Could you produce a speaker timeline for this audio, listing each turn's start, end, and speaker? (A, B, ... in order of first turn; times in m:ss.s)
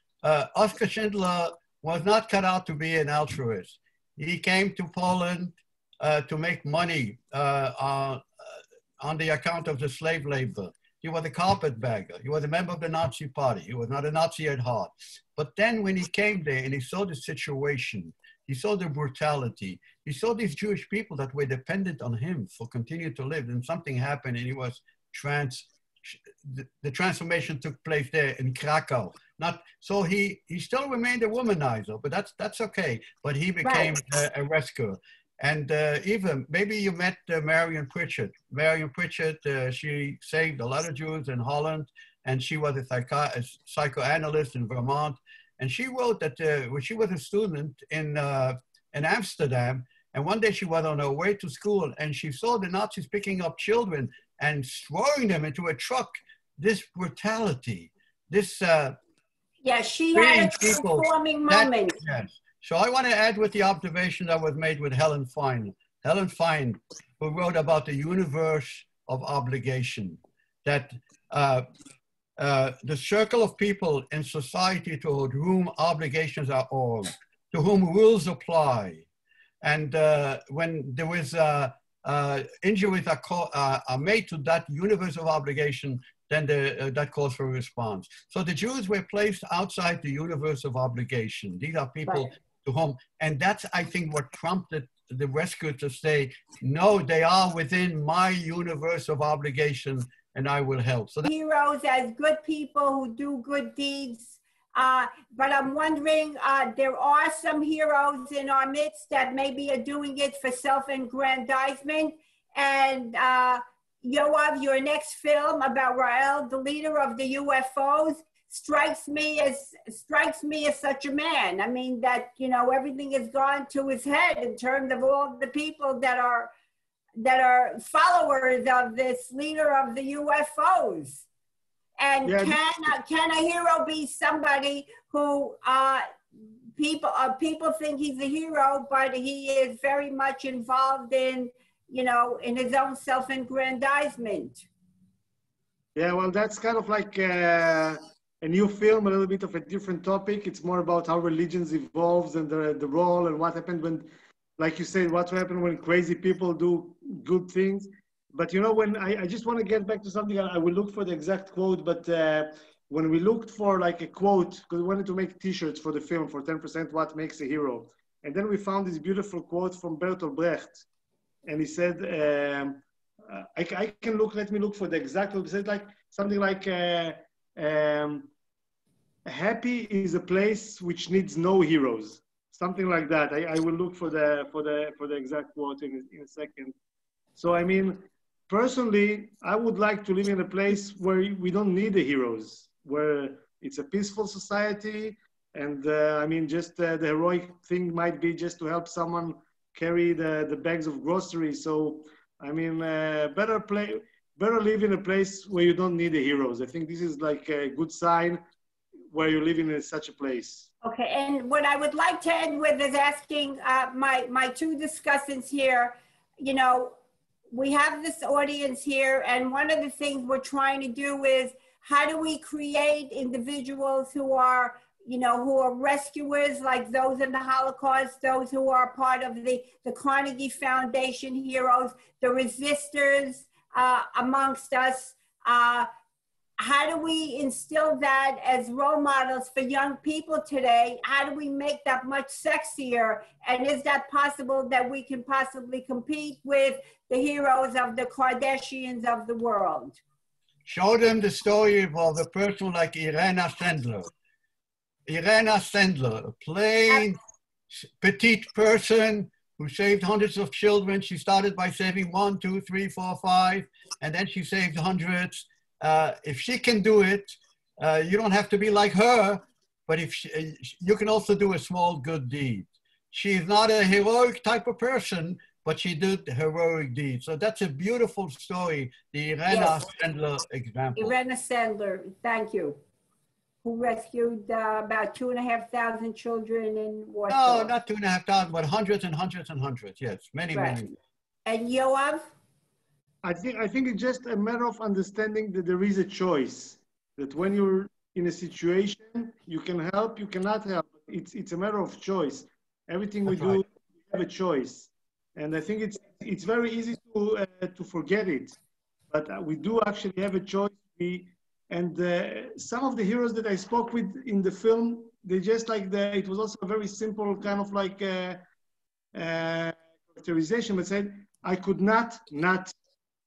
0:00.2-0:08.2 A
0:09.0-0:59.0 A
0:33.6-0:34.0 B
0:59.6-1:02.0 B
1:00.1-1:11.6 A
1:12.4-1:19.0 A
1:19.6-1:41.3 A
1:41.2-2:06.5 B
2:07.2-2:11.2 B
2:12.0-2:16.1 B
2:12.2-2:12.6 C
2:16.8-2:24.6 B
2:25.9-2:50.8 C
2:51.4-2:58.3 C
2:59.2-3:06.7 C
3:07.4-3:28.4 C
3:29.1-3:30.7 C
3:30.8-3:37.0 B
3:37.5-3:55.9 B
3:56.6-4:10.0 B
4:10.6-4:14.1 A
4:15.1-4:17.2 A
4:17.7-4:41.2 A
4:39.5-4:39.8 B
4:41.0-4:42.8 B
4:43.6-4:47.7 B
4:47.3-4:50.9 A
4:50.5-4:50.8 B
4:51.4-4:52.3 B
4:53.2-5:08.6 C
5:03.3-5:03.6 A
5:09.1-5:18.4 C
5:19.1-5:22.7 C